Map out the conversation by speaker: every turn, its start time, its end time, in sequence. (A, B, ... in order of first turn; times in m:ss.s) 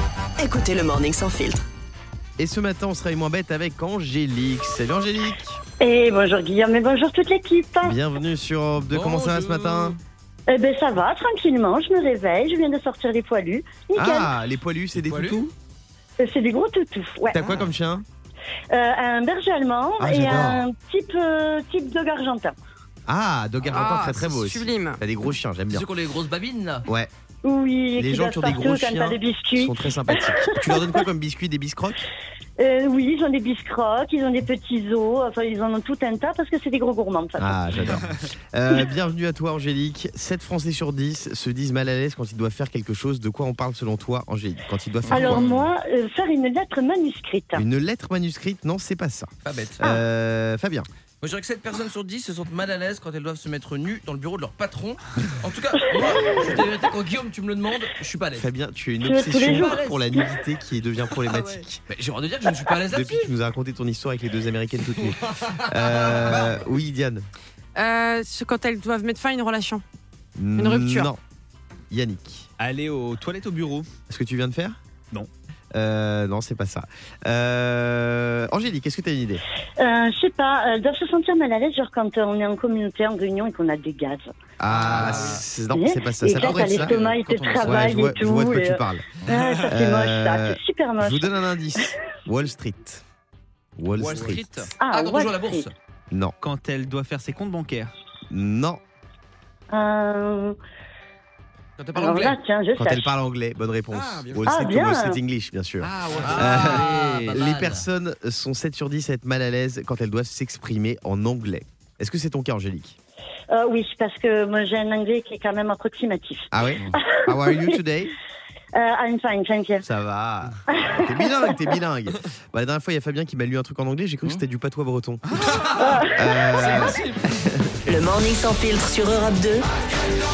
0:00.4-0:01.6 A
0:02.4-0:05.6 B
0:05.8-0:08.0 C
0:07.8-0:10.0 B
0:08.9-0:09.9 D
0:10.5-0:14.3 C
0:13.9-0:15.5 B
0:15.1-0:15.4 D
0:16.2-0:17.4 C
0:17.3-0:18.0 B
0:18.7-0:22.5 C
0:20.0-0:20.6 B
0:23.1-0:25.9 B
0:23.7-0:25.0 E
0:25.7-0:26.8 D
0:27.4-0:31.0 C
0:28.0-0:32.0 B
0:32.6-0:37.8 C
0:37.4-0:45.5 B
0:45.1-0:45.6 D
0:45.1-0:47.6 C
0:47.5-0:50.9 B
0:49.4-0:49.8 D
0:51.2-0:58.5 D
0:58.3-1:01.8 B
0:59.0-1:00.2 C
0:59.4-1:00.0 D
1:01.9-1:03.3 D
1:02.9-1:07.2 B
1:06.1-1:06.6 D
1:07.8-1:09.8 E
1:10.4-1:11.2 B
1:10.6-1:11.1 E
1:11.9-1:12.5 B
1:12.6-1:13.9 F
1:14.1-1:14.8 B
1:15.7-1:19.4 B
1:19.8-1:24.3 C
1:24.6-1:27.0 B
1:24.7-1:25.4 D
1:25.0-1:25.4 F
1:25.7-1:31.3 C
1:26.3-1:28.0 D
1:27.6-1:33.0 B
1:33.8-1:34.4 B
1:34.0-1:35.7 D
1:34.8-1:35.7 C
1:36.4-1:37.9 F
1:38.3-1:38.8 B
1:39.7-1:40.6 C
1:41.8-1:42.4 D
1:41.9-1:43.1 C
1:42.8-1:53.0 B
1:43.9-1:44.5 D
1:44.4-1:45.2 C
1:45.8-1:47.9 D
1:46.2-1:47.2 F
1:53.5-1:57.7 C
1:56.5-1:58.1 B
1:58.8-1:59.8 C
1:59.8-2:05.2 B
2:00.8-2:01.0 C
2:05.6-2:06.9 C
2:06.1-2:07.4 B
2:07.8-2:09.6 A